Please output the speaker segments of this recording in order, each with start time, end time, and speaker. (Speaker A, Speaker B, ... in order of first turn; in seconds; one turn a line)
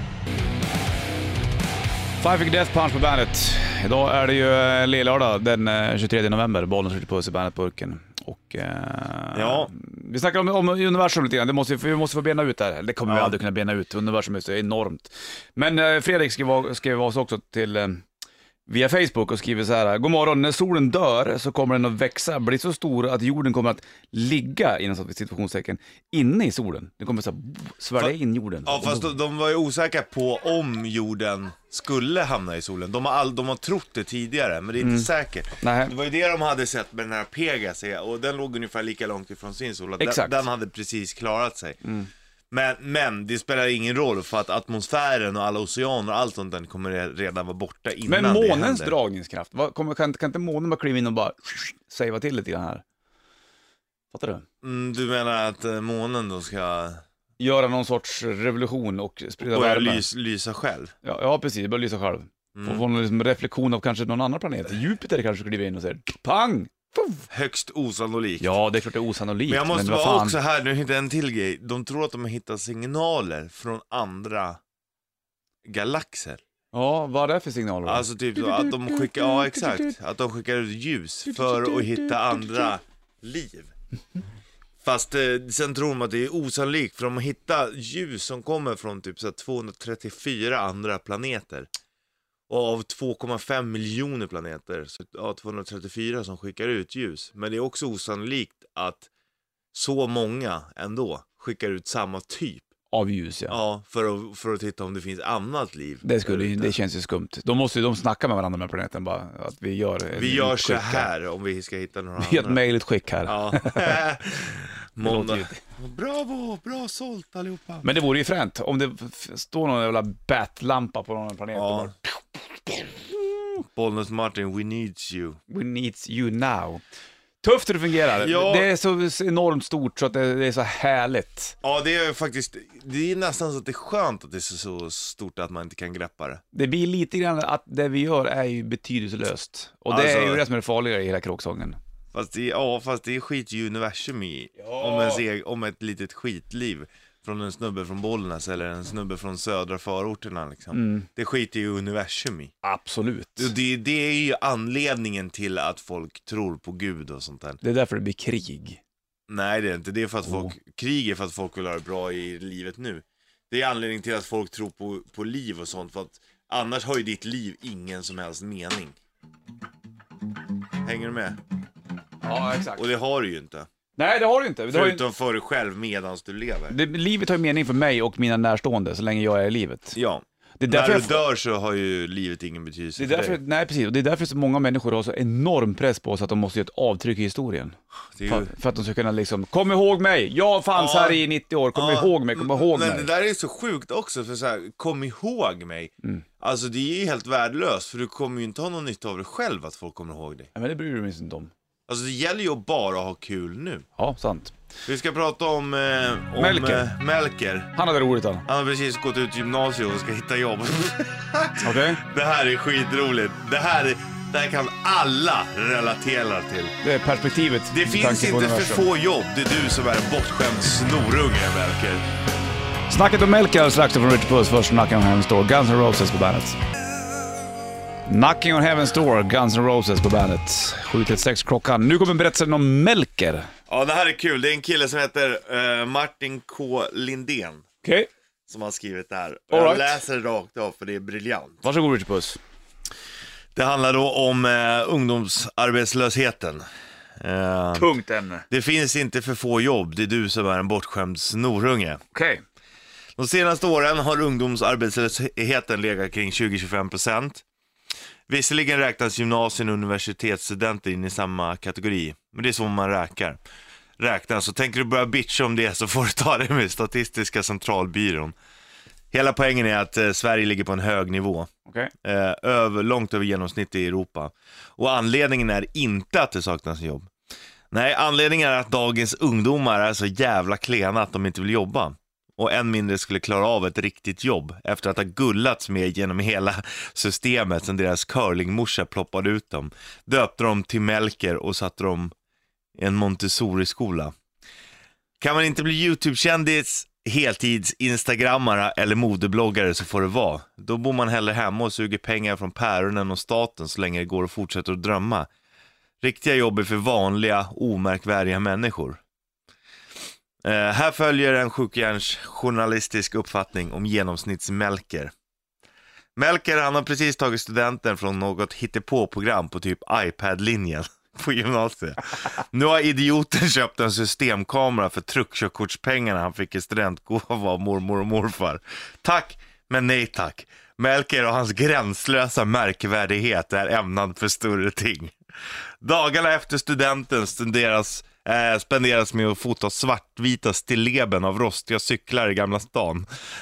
Speaker A: 2.2-18.0
Speaker B: 9.3-9.7
Speaker B: 13.1-13.4
Speaker A: 18.7-29.1
Speaker B: 28.6-41.8
Speaker A: 34.8-35.1
Speaker A: 35.6-35.9
Speaker A: 40.0-40.4
Speaker A: 41.8-42.1
Speaker B: 42.5-48.9
Speaker A: 48.1-52.8
Speaker A: 54.1-54.4
Speaker B: 54.6-57.0
Speaker A: 57.4-60.0
Speaker B: 59.5-60.9
Speaker A: 61.0-67.2
Speaker B: 62.5-62.8
Speaker B: 67.3-68.5
Speaker A: 68.4-70.3
Speaker B: 69.5-74.6
Speaker B: 75.6-76.4
Speaker A: 76.7-78.1
Speaker B: 77.8-83.7
Speaker B: 84.8-91.7
Speaker B: 92.5-99.1
Speaker B: 99.7-102.7
Speaker A: 102.9-103.5
Speaker B: 103.5-106.7
Speaker A: 106.0-111.1
Speaker B: 110.1-112.6
Speaker A: 112.2-114.0
Speaker B: 113.2-117.9
Speaker A: 115.0-115.6
Speaker A: 117.8-122.2
Speaker B: 121.5-121.9
Speaker B: 123.6-125.4
Speaker A: 125.5-126.8
Speaker A: 127.4-131.6
Speaker B: 128.2-128.7
Speaker B: 131.6-136.4
Speaker A: 136.5-141.8
Speaker B: 139.9-140.4
Speaker B: 142.1-152.5
Speaker A: 144.6-145.2
Speaker A: 150.7-151.1
Speaker A: 152.6-153.5
Speaker B: 153.4-157.6
Speaker A: 157.6-158.8
Speaker B: 159.3-169.0
Speaker A: 160.3-160.5
Speaker B: 170.8-171.4
Speaker A: 172.2-172.8
Speaker B: 172.8-173.7
Speaker A: 174.0-175.0
Speaker B: 174.7-176.8
Speaker A: 176.7-180.0
Speaker B: 179.9-183.4
Speaker A: 180.6-181.2
Speaker A: 183.0-193.1
Speaker B: 188.2-188.5
Speaker B: 190.7-191.2
Speaker B: 191.7-200.5
Speaker A: 200.5-201.5
Speaker B: 201.9-203.8
Speaker A: 204.0-204.5
Speaker B: 204.8-207.7
Speaker A: 206.3-206.8
Speaker A: 207.8-208.4
Speaker B: 208.4-216.7
Speaker A: 211.6-212.0
Speaker A: 216.8-218.9
Speaker B: 217.7-222.0
Speaker A: 222.9-226.6
Speaker A: 228.1-233.5
Speaker B: 233.7-237.6
Speaker A: 237.8-238.1
Speaker B: 238.5-241.6
Speaker A: 239.5-239.9
Speaker A: 241.6-242.4
Speaker B: 243.5-246.6
Speaker B: 247.2-247.9
Speaker A: 247.7-248.4
Speaker B: 248.5-252.0
Speaker A: 252.1-252.4
Speaker B: 253.2-257.4
Speaker B: 258.3-263.4
Speaker B: 264.0-268.4
Speaker B: 269.1-271.5
Speaker B: 272.0-277.1
Speaker B: 277.7-292.1
Speaker B: 292.8-294.1
Speaker B: 295.2-305.3
Speaker B: 306.0-309.0
Speaker B: 310.4-315.1
Speaker B: 316.1-335.1
Speaker B: 335.8-343.1